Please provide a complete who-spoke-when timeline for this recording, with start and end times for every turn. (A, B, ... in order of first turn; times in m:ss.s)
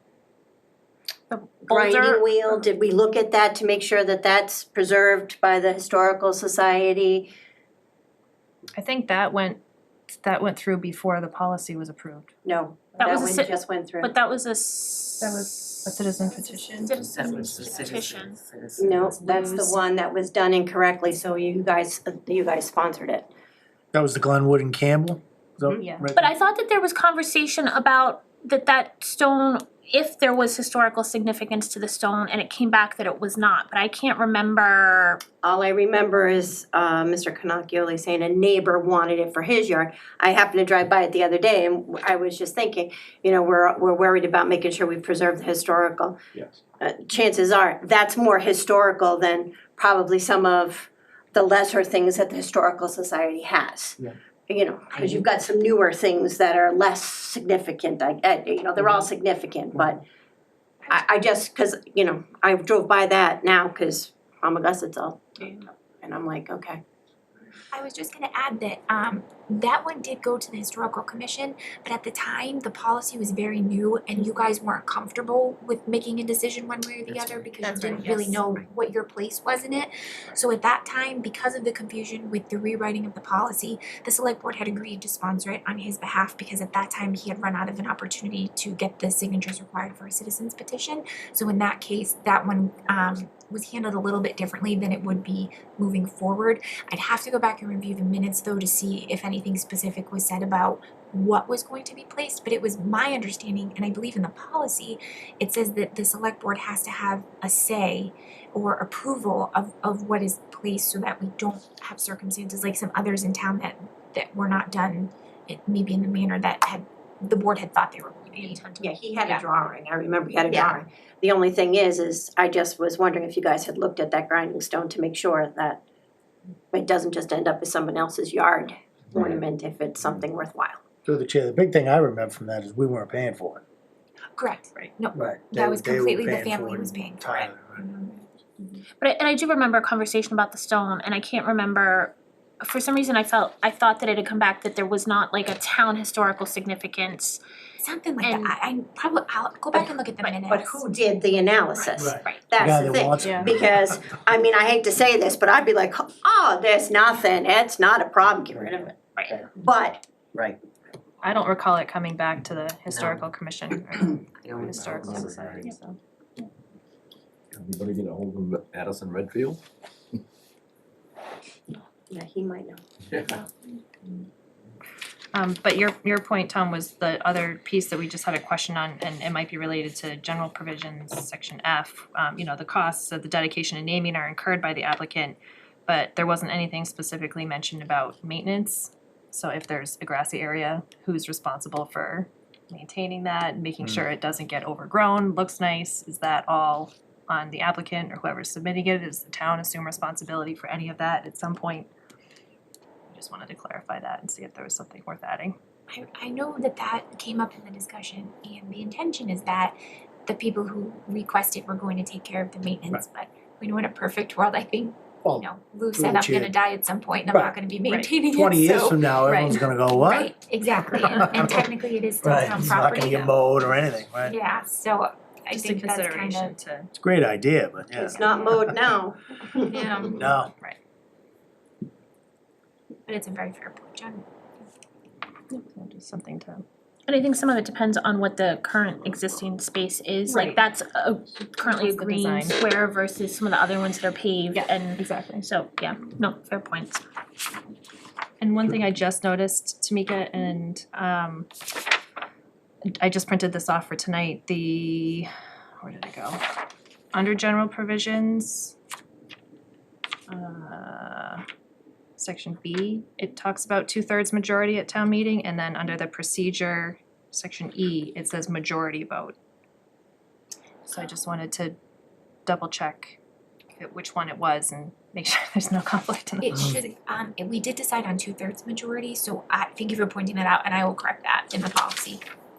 0:01.3-0:02.6 A
0:01.7-0:07.3 B
0:08.8-0:09.6 C
0:10.2-0:12.3 C
0:12.4-0:14.1 B
0:13.0-0:18.4 A
0:15.2-0:17.4 C
0:16.9-0:19.4 D
0:18.8-0:23.3 B
0:19.2-0:19.6 A
0:19.3-0:19.6 C
0:23.9-0:26.2 E
0:26.2-0:35.2 A
0:35.4-0:46.2 B
0:46.3-0:46.6 F
0:46.8-1:00.0 B
1:00.9-1:06.8 B
1:07.7-1:58.6 G
1:17.1-1:18.2 D
1:17.6-1:18.4 A
1:58.3-1:59.0 A
1:58.8-2:05.8 B
2:06.7-2:10.8 B
2:11.0-2:13.6 E
2:14.4-2:18.2 G
2:15.1-2:17.8 E
2:19.0-2:27.4 A
2:27.8-2:30.8 G
2:28.2-2:28.5 A
2:30.4-2:39.0 B
2:32.0-2:34.0 E
2:39.5-2:40.0 B
2:41.2-2:46.0 C
2:42.9-2:43.2 D
2:44.4-2:45.6 D
2:45.0-2:45.7 F
2:47.5-2:49.6 F
2:52.1-2:52.8 B
2:55.3-3:21.9 C
3:23.1-3:25.5 C
3:25.9-3:29.7 G
3:30.2-3:43.4 G
3:35.2-3:36.5 E
3:37.9-3:38.2 C
3:38.3-3:40.3 E
3:39.2-3:39.6 C
3:41.0-3:41.6 E
3:41.1-3:41.4 C
3:42.2-3:44.4 E
3:44.2-3:46.6 G
3:45.5-3:46.9 C
3:47.0-3:48.7 E
3:48.0-3:48.6 G
3:48.0-3:50.1 B
3:49.6-3:50.2 G
3:50.1-3:50.5 E
3:50.2-3:50.8 C
3:53.1-3:54.2 G
3:55.5-3:56.6 C
3:57.1-4:07.0 A
4:00.3-4:00.6 C
4:01.6-4:02.6 C
4:04.5-4:05.5 C
4:08.4-4:11.5 C
4:13.0-4:15.3 C
4:15.8-4:16.4 C
4:17.1-4:18.8 C
4:20.3-4:21.4 C
4:22.2-4:29.3 C
4:30.9-4:31.8 C
4:32.4-4:33.2 C
4:33.8-4:36.6 C
4:36.4-4:42.2 G